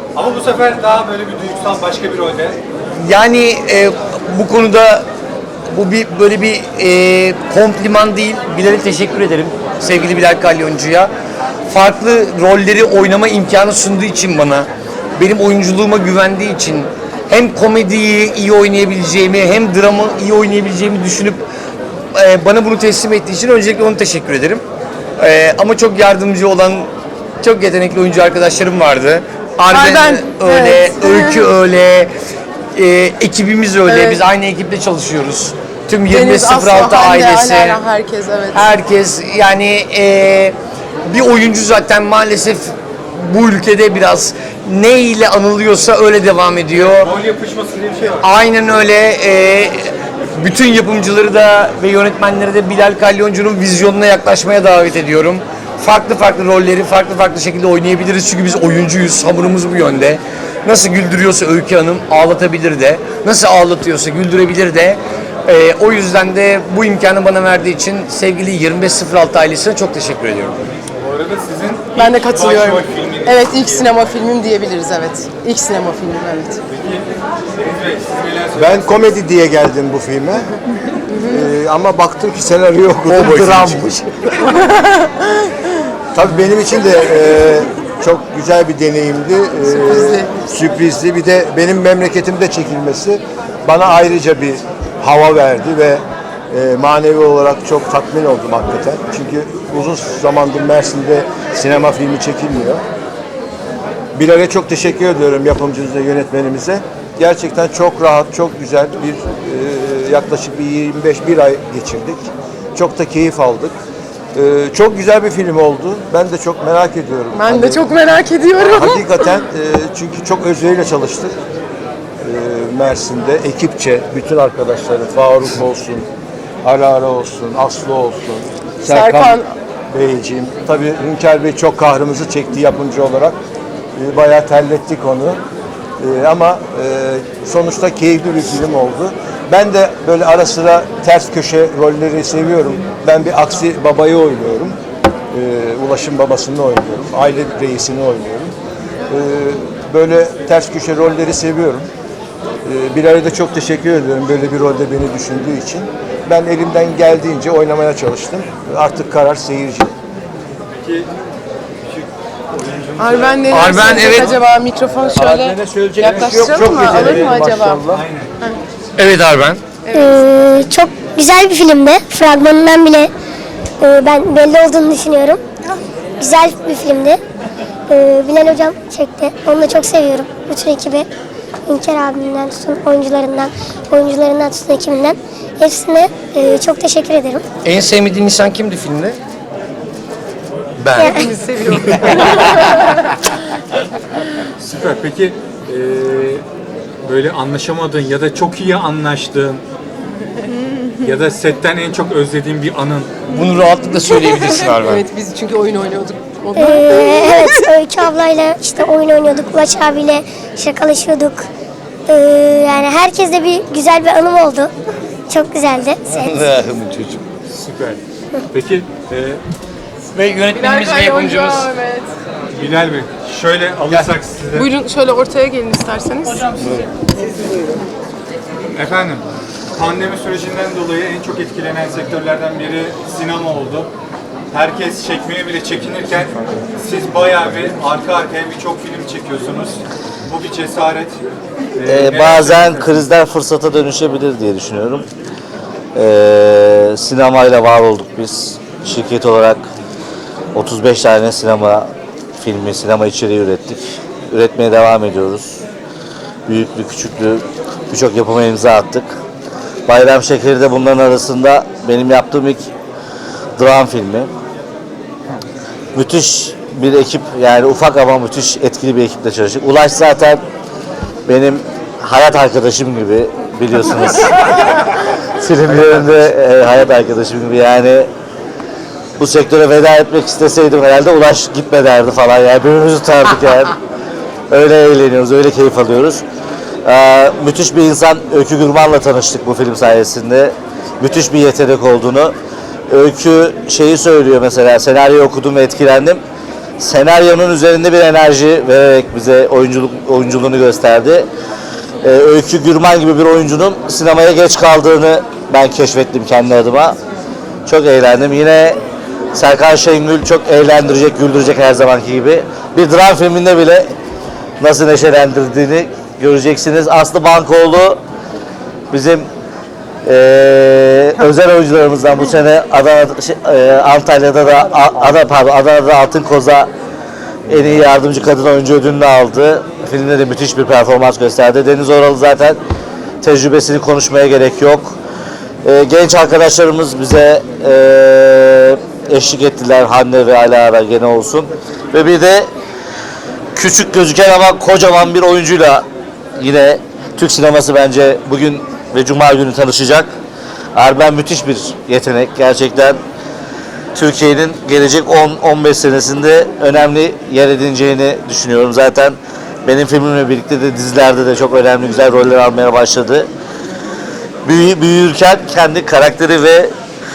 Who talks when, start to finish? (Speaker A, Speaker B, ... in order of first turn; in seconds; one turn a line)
Speaker A: 0.1-2.6
Speaker B: 2.9-5.0
Speaker B: 5.7-11.1
Speaker B: 11.7-21.4
Speaker B: 22.1-24.6
Speaker B: 25.2-26.9
Speaker B: 27.4-32.1
Speaker C: 29.7-31.4
Speaker B: 32.7-37.8
Speaker C: 33.8-34.2
Speaker C: 36.1-38.6
Speaker B: 38.5-40.5
Speaker B: 41.1-47.0
Speaker A: 46.7-48.2
Speaker B: 48.2-70.6
Speaker A: 70.9-73.9
Speaker C: 72.0-76.6
Speaker A: 76.7-79.1
Speaker D: 78.5-80.5
Speaker D: 81.3-84.4
Speaker B: 83.3-83.8
Speaker C: 84.6-85.0
Speaker D: 86.1-102.8
Speaker C: 89.6-90.3
Speaker D: 104.1-113.8
Speaker D: 114.3-117.8
Speaker C: 117.3-119.0
Speaker D: 118.6-121.3
Speaker D: 122.2-126.0
Speaker D: 126.6-129.3
Speaker C: 128.8-129.5
Speaker D: 129.9-133.4
Speaker D: 133.9-135.4
Speaker D: 136.0-144.8
Speaker D: 145.3-148.5
Speaker D: 149.1-151.9
Speaker D: 152.6-159.9
Speaker A: 160.7-161.1
Speaker A: 161.8-164.3
Speaker C: 163.0-167.8
Speaker B: 163.5-164.3
Speaker D: 165.2-168.0
Speaker A: 166.0-168.3
Speaker B: 169.0-169.6
Speaker C: 169.9-170.2
Speaker E: 169.9-173.1
Speaker E: 173.8-175.4
Speaker E: 176.2-177.2
Speaker E: 177.9-181.1
Speaker E: 181.7-187.4
Speaker B: 187.6-189.2
Speaker B: 190.8-191.1
Speaker E: 190.9-191.3
Speaker C: 191.0-192.5
Speaker B: 191.7-192.3
Speaker A: 194.6-196.4
Speaker A: 197.0-199.6
Speaker A: 201.0-203.2
Speaker B: 203.3-205.0
Speaker C: 204.5-207.7
Speaker E: 206.6-211.4
Speaker E: 212.1-214.7
Speaker E: 215.3-216.4
Speaker B: 216.1-217.2
Speaker A: 217.5-218.0
Speaker A: 218.5-219.4
Speaker B: 220.1-221.7
Speaker C: 220.5-222.1
Speaker A: 222.5-224.7
Speaker C: 224.5-226.5
Speaker A: 228.7-229.2
Speaker A: 229.7-233.9
Speaker A: 234.5-241.2
Speaker A: 241.8-242.9
Speaker F: 241.8-245.1
Speaker F: 245.9-249.7
Speaker F: 250.5-255.6
Speaker F: 256.5-259.1
Speaker F: 259.9-262.6
Speaker F: 263.6-264.3
Speaker F: 265.9-270.4
Speaker F: 271.3-274.8
Speaker F: 275.4-278.1
Speaker F: 279.2-283.8
Speaker F: 284.5-286.2
Speaker F: 286.8-292.3
Speaker F: 292.9-296.2
Speaker F: 296.8-301.3
Speaker F: 302.0-307.0
Speaker F: 307.6-308.8
Speaker F: 309.3-313.9
Speaker F: 314.6-318.0
Speaker F: 318.9-319.3
Speaker F: 320.0-326.7
Speaker F: 327.5-332.6
Speaker F: 333.2-334.9
Speaker F: 335.6-342.5
Speaker F: 343.5-345.8
Speaker F: 346.4-350.1
Speaker F: 350.7-353.0
Speaker F: 353.9-363.3
Speaker F: 364.4-366.7